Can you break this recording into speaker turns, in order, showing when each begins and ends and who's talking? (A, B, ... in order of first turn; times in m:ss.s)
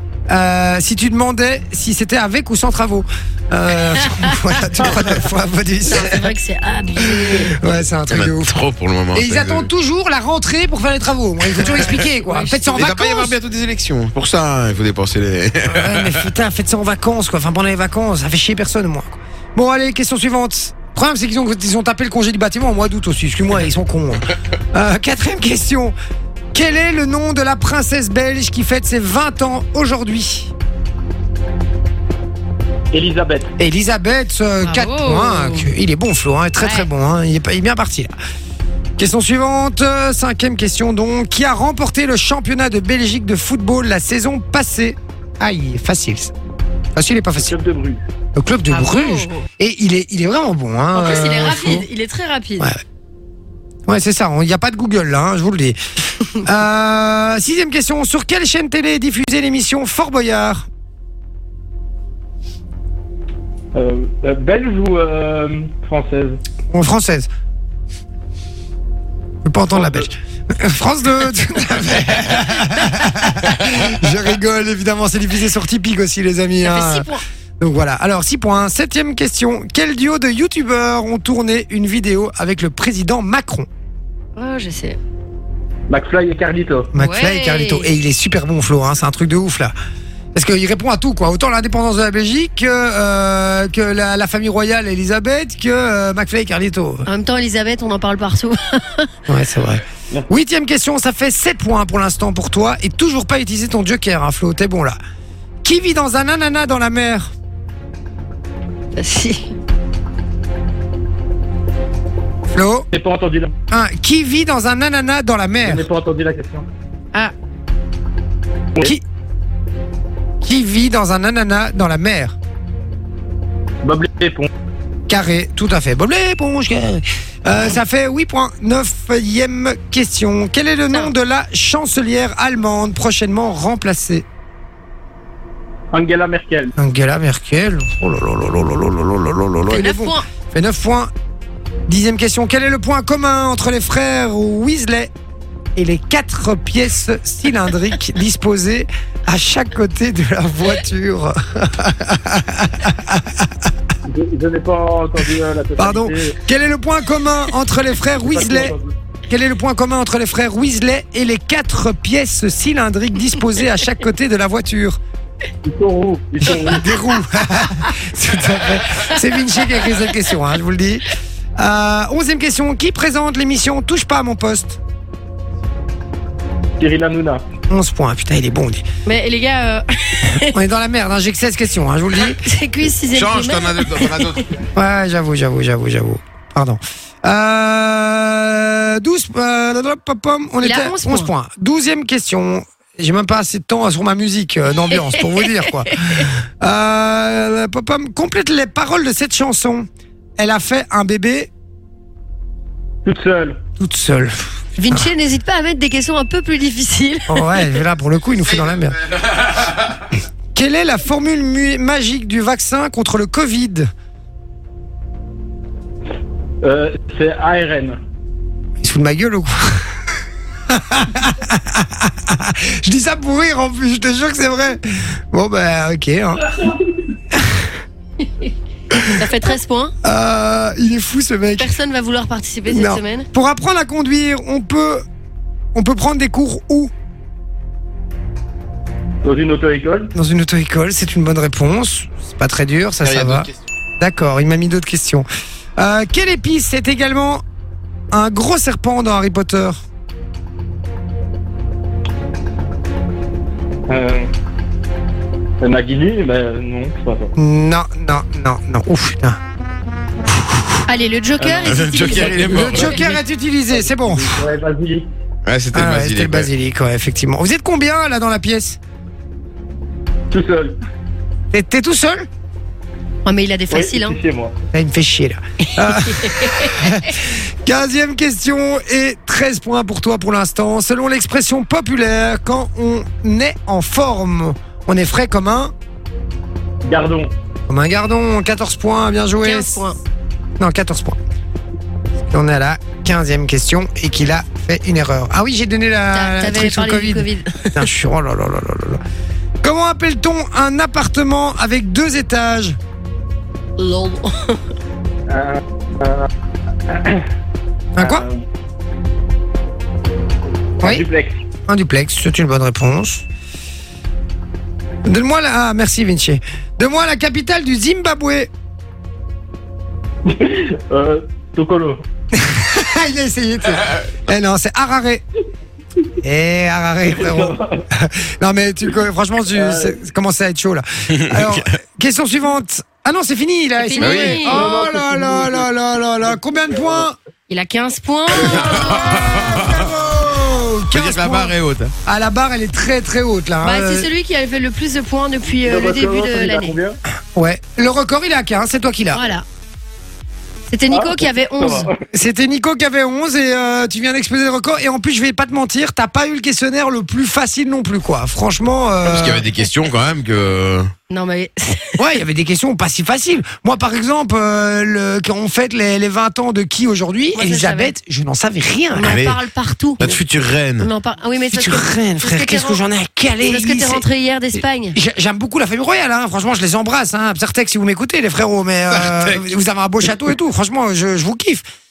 0:00.3-0:06.2 A
0:04.0-0:04.3 B
0:05.8-0:07.6 B
0:07.2-0:08.6 A
0:08.1-0:09.7 C
0:09.1-0:13.3 A
0:11.6-0:13.1 B
0:12.8-0:16.3 C
0:15.6-0:25.9 A
0:26.5-0:30.5 A
0:32.9-0:33.5 D
0:33.6-0:38.1 A
0:34.6-0:35.7 B
0:36.6-0:36.9 B
0:39.0-0:46.3 A
0:47.0-0:47.5 A
0:47.4-0:48.0 D
0:48.3-0:51.8 A
0:48.7-0:49.4 B
0:50.9-0:52.7 B
0:51.3-0:51.7 D
0:53.9-0:55.8 A
0:56.3-1:00.7 A
1:03.7-1:06.4 D
1:06.7-1:07.3 A
1:09.4-1:23.7 A
1:09.7-1:10.1 D
1:16.6-1:17.2 B
1:24.4-1:25.0 B
1:25.9-1:26.9 D
1:26.9-1:29.7 A
1:26.9-1:27.9 B
1:30.3-1:37.1 A
1:37.0-1:39.1 B
1:39.3-1:45.0 A
1:45.6-1:47.3 A
1:49.0-1:49.5 B
1:52.5-1:52.9 A
1:52.9-1:53.5 D
1:53.7-1:55.8 A
1:55.6-1:56.7 D
2:00.4-2:02.4 A
2:03.8-2:04.5 D
2:05.1-2:14.2 A
2:15.9-2:16.7 D
2:16.8-2:21.1 A
2:19.7-2:20.2 B
2:21.9-2:25.1 A
2:25.8-2:33.7 A
2:34.0-2:36.4 D
2:35.8-2:38.8 A
2:38.2-2:38.9 D
2:39.3-2:45.0 A
2:45.6-2:46.9 D
2:46.4-2:54.8 A
2:56.8-2:57.4 D
2:57.7-2:58.8 A
2:59.0-3:00.6 B
3:00.4-3:02.4 A
3:02.2-3:04.5 B
3:03.1-3:04.5 C
3:04.7-3:19.9 A
3:10.6-3:11.3 B
3:14.9-3:16.2 B
3:20.4-3:21.5 A
3:23.0-3:23.6 D
3:23.8-3:25.1 A
3:24.8-3:27.8 B
3:27.3-3:29.0 A
3:29.1-3:29.8 C
3:30.5-3:33.9 A
3:36.6-3:38.0 D
3:38.8-3:39.8 A
3:40.7-3:46.6 A
3:47.3-3:47.7 A
3:48.4-3:49.9 B
3:50.0-3:51.7 A
3:51.6-3:53.2 B
3:52.7-3:55.0 A
3:55.7-3:56.9 A
3:59.2-4:00.1 D
4:00.1-4:03.5 A
4:03.0-4:03.5 C
4:04.0-4:05.2 A
4:05.8-4:07.4 A
4:08.1-4:09.8 A
4:13.9-4:14.3 D
4:15.6-4:17.3 D
4:17.4-4:19.4 A
4:20.3-4:20.8 A
4:20.9-4:23.2 B
4:21.4-4:23.0 D
4:21.6-4:23.0 C
4:22.4-4:24.5 A
4:23.7-4:25.1 D
4:25.4-4:26.5 C
4:25.7-4:28.8 A
4:30.3-4:30.8 D
4:31.5-4:32.3 A
4:33.2-4:34.2 B
4:33.7-4:34.5 D
4:34.7-4:45.7 A
4:35.8-4:37.1 B
4:46.8-4:47.3 D
4:47.7-4:49.8 A
4:49.4-4:50.0 B
4:50.6-4:51.2 A
4:52.3-4:59.0 A
4:56.1-4:57.9 B
4:59.6-5:02.8 A
5:03.8-5:04.6 B
5:05.3-5:06.3 D
5:06.9-5:07.2 D
5:07.9-5:08.3 A
5:08.0-5:08.4 D
5:10.8-5:11.4 D
5:11.7-5:13.2 A
5:15.0-5:18.5 A
5:20.2-5:22.0 D
5:22.3-5:25.2 A
5:26.2-5:37.2 A
5:27.0-5:27.8 D
5:29.5-5:29.9 D
5:31.1-5:31.6 C
5:33.8-5:34.7 B
5:34.0-5:34.4 C
5:34.4-5:35.7 D
5:36.3-5:37.0 D
5:37.5-5:39.2 B
5:38.3-5:38.9 D
5:38.4-5:44.1 A
5:38.6-5:39.9 C
5:40.9-5:41.9 C
5:43.6-5:46.8 B
5:45.6-5:47.0 D
5:47.4-5:49.3 A
5:49.1-5:49.4 B
5:50.7-5:51.9 B
5:50.9-5:52.0 D
5:52.1-5:59.5 A
5:59.0-6:00.9 C
6:01.1-6:02.0 B
6:02.0-6:09.2 A
6:07.3-6:07.9 B
6:08.9-6:10.1 B
6:09.0-6:09.4 C
6:10.0-6:10.9 C
6:10.8-6:12.8 B
6:11.5-6:14.0 A
6:13.4-6:15.0 B
6:14.6-6:21.6 A
6:18.9-6:19.5 C